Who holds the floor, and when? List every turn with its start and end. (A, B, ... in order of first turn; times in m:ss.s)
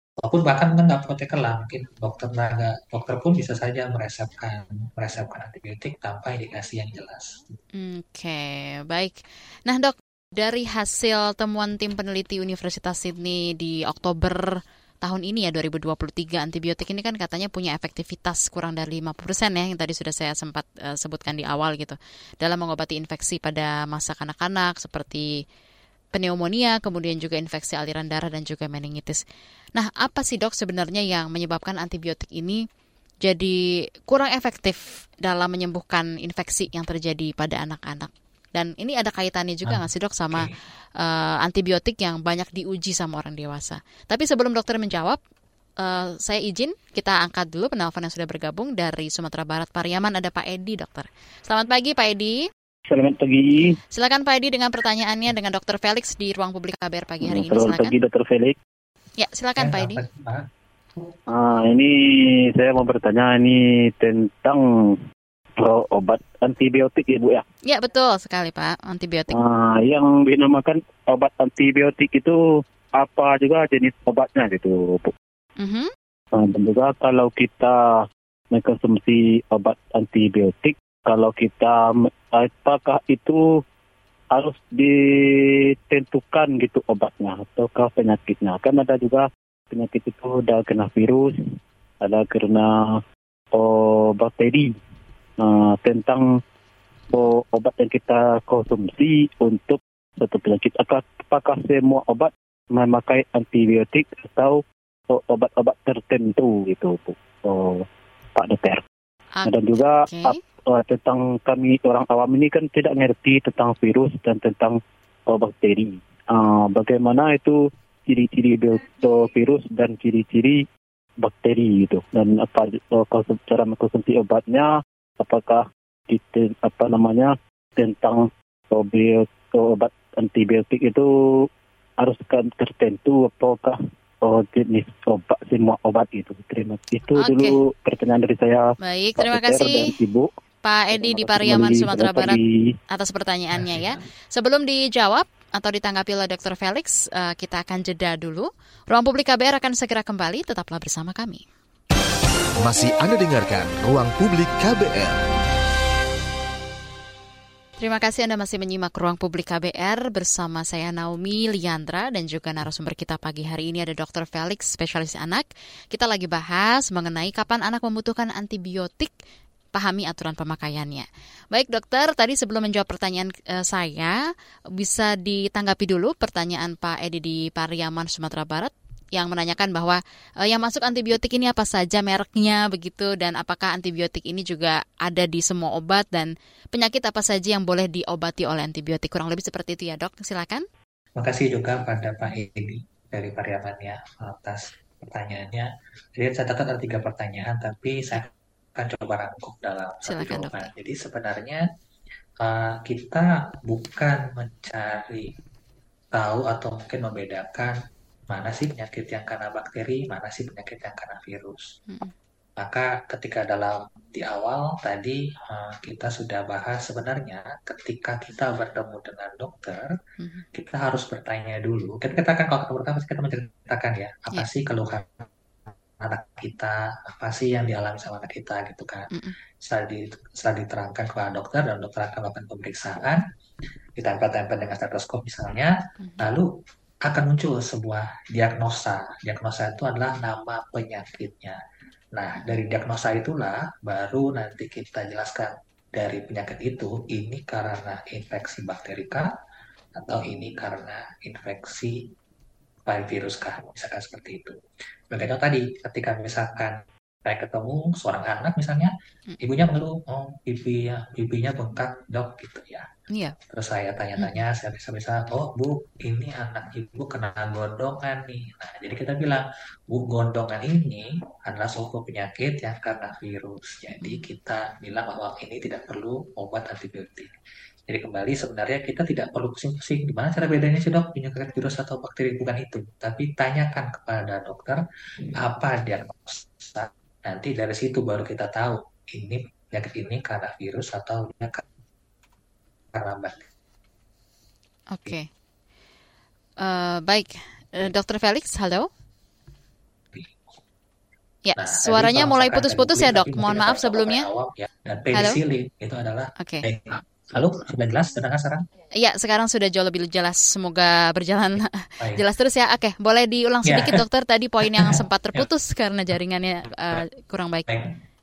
0:00.2-0:07.4 A
0:07.7-0:14.4 B
0:15.0-0:25.3 B
0:26.1-0:29.2 B
0:29.8-0:32.6 B
0:33.2-0:45.2 B
0:39.6-0:40.5 A
0:45.8-0:52.4 B
0:52.9-0:53.8 C
0:53.9-0:58.0 B
0:57.2-0:58.6 C
0:59.2-1:00.0 B
0:59.6-1:00.4 A
1:01.3-1:05.0 C
1:05.6-1:07.4 C
1:07.6-1:09.4 B
1:09.3-1:12.4 C
1:13.0-1:15.1 C
1:15.6-1:15.9 B
1:16.3-1:23.4 C
1:24.3-1:31.4 C
1:32.0-1:33.0 C
1:33.5-1:34.7 C
1:35.4-1:36.3 C
1:37.1-1:48.8 C
1:49.3-1:50.4 B
1:49.4-2:00.6 C
2:01.2-2:11.5 C
2:12.0-2:20.3 C
2:17.1-2:17.6 B
2:18.8-2:19.9 B
2:20.6-2:22.4 B
2:20.9-2:22.7 C
2:22.9-2:31.4 B
2:23.5-2:24.0 A
2:32.6-2:35.2 D
2:37.8-2:49.1 B
2:49.7-2:54.2 B
2:54.8-3:10.6 B
3:11.2-3:21.6 A
3:20.0-3:20.7 B
3:22.4-3:25.3 A
3:26.1-3:27.8 A
3:28.3-3:31.7 A
3:31.9-3:32.1 B
3:32.6-3:39.9 A
3:40.2-3:40.4 B
3:40.5-3:45.3 A
3:46.0-3:49.1 A
3:49.1-3:49.4 B
3:49.6-3:53.2 A
3:54.0-3:56.5 A
3:56.0-3:56.3 B
3:57.0-4:01.6 A
4:02.1-4:09.3 A
4:10.0-4:12.0 A
4:12.9-4:14.6 A
4:15.1-4:22.9 A
4:23.1-4:23.4 B
4:23.5-4:37.3 A
4:34.0-4:34.2 B
4:37.9-4:44.8 A
4:45.4-4:51.6 A
4:52.9-4:53.4 A
4:54.9-4:55.3 B
4:56.6-4:58.9 B
5:00.1-5:00.4 A
5:01.4-5:04.3 B
5:01.6-5:08.6 A
5:05.1-5:05.4 B
5:06.4-5:06.6 B
5:09.0-5:17.7 B
5:13.6-5:14.0 A
5:14.6-5:15.5 A
5:17.7-5:17.9 A